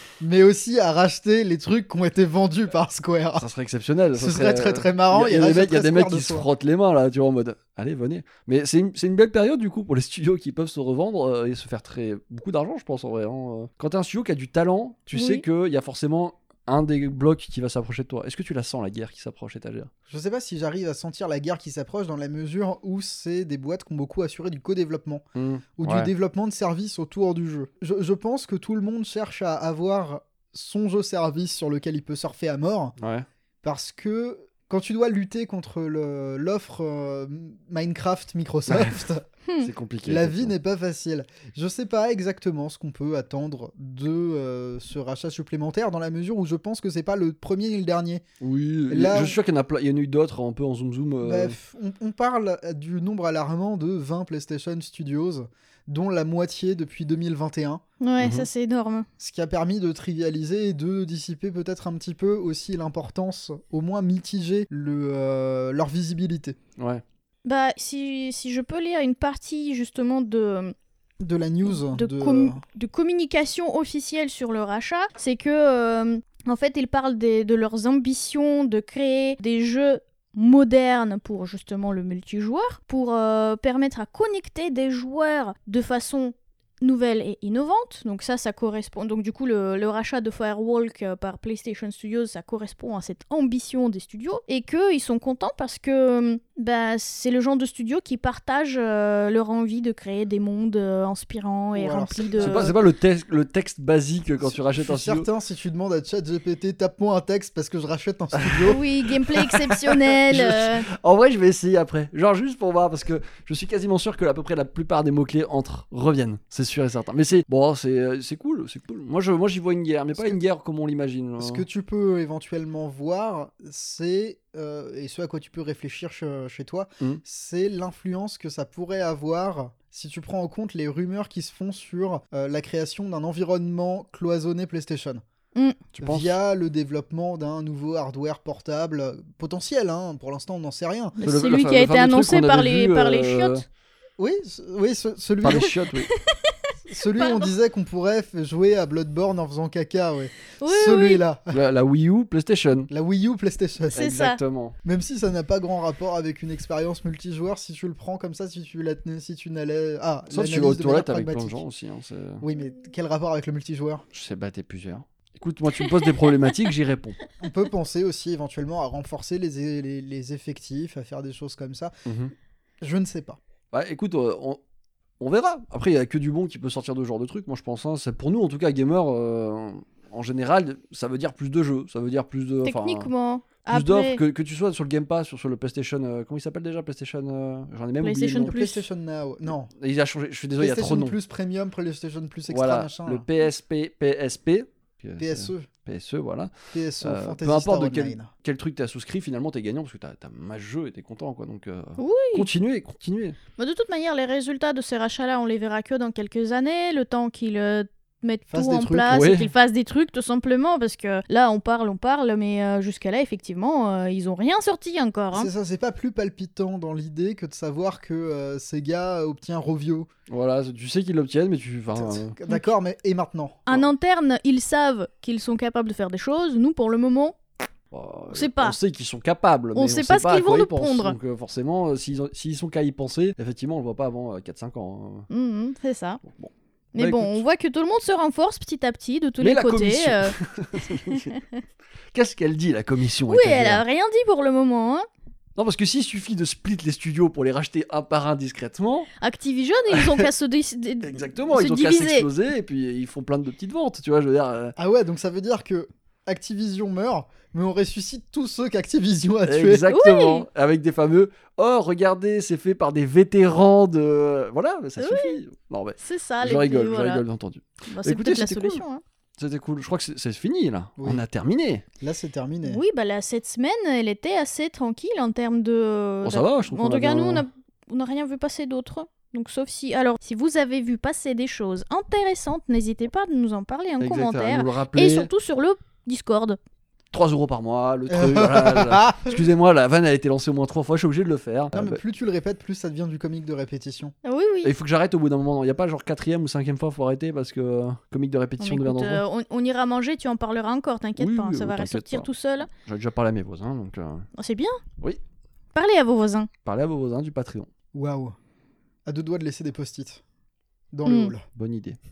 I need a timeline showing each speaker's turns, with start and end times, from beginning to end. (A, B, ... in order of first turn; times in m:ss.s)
0:00.2-0:03.5 A
0:03.4-0:19.9 B
0:04.2-0:06.5 A
0:15.1-0:15.4 C
0:20.1-0:25.2 A
0:25.4-0:26.1 B
0:25.8-0:32.9 A
0:33.0-0:33.3 B
0:33.6-0:39.2 A
0:38.7-0:39.0 B
0:39.6-0:40.5 B
0:40.0-0:48.2 A
0:48.4-0:51.6 B
0:48.9-0:49.4 A
0:51.2-0:57.8 A
0:58.0-0:59.1 C
0:58.2-0:58.5 B
0:59.2-1:06.6 A
1:07.4-1:10.7 C
1:11.2-1:12.6 A
1:11.7-1:42.7 C
1:41.8-1:42.8 A
1:42.4-1:45.3 B
1:44.4-1:48.8 A
1:48.4-2:01.6 B
1:48.7-1:50.9 C
2:01.4-2:15.2 A
2:15.6-2:15.8 C
2:15.9-2:16.3 B
2:16.0-2:21.2 A
2:21.2-2:23.6 C
2:21.2-2:23.6 B
2:24.2-2:25.8 A
2:25.4-2:26.1 B
2:25.6-2:27.5 C
2:26.8-2:31.6 A
2:30.6-2:31.2 C
2:31.5-2:32.9 B
2:32.9-2:34.1 A
2:34.0-2:34.8 B
2:34.0-2:34.4 C
2:34.8-2:41.6 A
2:40.3-2:42.4 B
2:42.4-2:44.0 A
2:44.1-2:47.2 B
2:45.7-2:46.5 C
2:47.4-2:51.9 A
2:52.1-2:52.3 B
2:52.8-2:53.4 A
2:53.7-2:54.6 B
2:55.2-3:03.1 B
3:02.6-3:04.2 C
3:03.6-3:08.5 B
3:08.0-3:08.8 C
3:08.5-3:09.7 A
3:09.8-3:11.2 B
3:10.6-3:13.3 A
3:12.5-3:23.4 B
3:15.2-3:15.7 A
3:16.7-3:18.3 A
3:22.0-3:22.5 C
3:23.6-3:35.5 C
3:28.5-3:29.3 A
3:29.1-3:29.5 B
3:35.3-3:40.1 A
3:40.3-3:42.4 B
3:42.0-3:43.6 A
3:43.7-3:47.4 C
3:47.9-3:55.3 B
3:48.3-3:48.8 C
3:49.8-3:51.2 C
3:55.3-3:56.2 C
3:56.2-3:57.4 B
3:57.0-4:00.4 C
3:59.4-4:01.3 B
4:01.1-4:01.6 C
4:02.1-4:03.8 B
4:03.3-4:05.1 C
4:05.6-4:09.1 B
4:09.2-4:12.3 C
4:09.9-4:10.3 B
4:11.0-4:14.8 B
4:14.8-4:19.9 A
4:19.5-4:28.8 B
4:19.9-4:20.4 C
4:25.0-4:25.4 C
4:26.0-4:27.2 C
4:27.9-4:29.0 C
4:29.4-4:31.8 B
4:32.0-4:32.8 A
4:32.6-4:46.6 C
4:36.2-4:37.4 B
4:44.0-4:45.3 B
4:47.1-4:52.0 B
4:48.1-4:49.4 A
4:51.7-4:54.1 A
4:54.2-4:54.7 C
4:54.6-4:59.2 B
4:58.6-5:02.7 C
5:01.2-5:04.3 B
5:04.4-5:04.8 C
5:05.7-5:06.5 C
5:06.6-5:07.7 B
5:07.9-5:08.4 A
5:09.1-5:10.2 A
5:10.9-5:11.4 A
5:11.1-5:11.3 C
5:11.5-5:12.0 B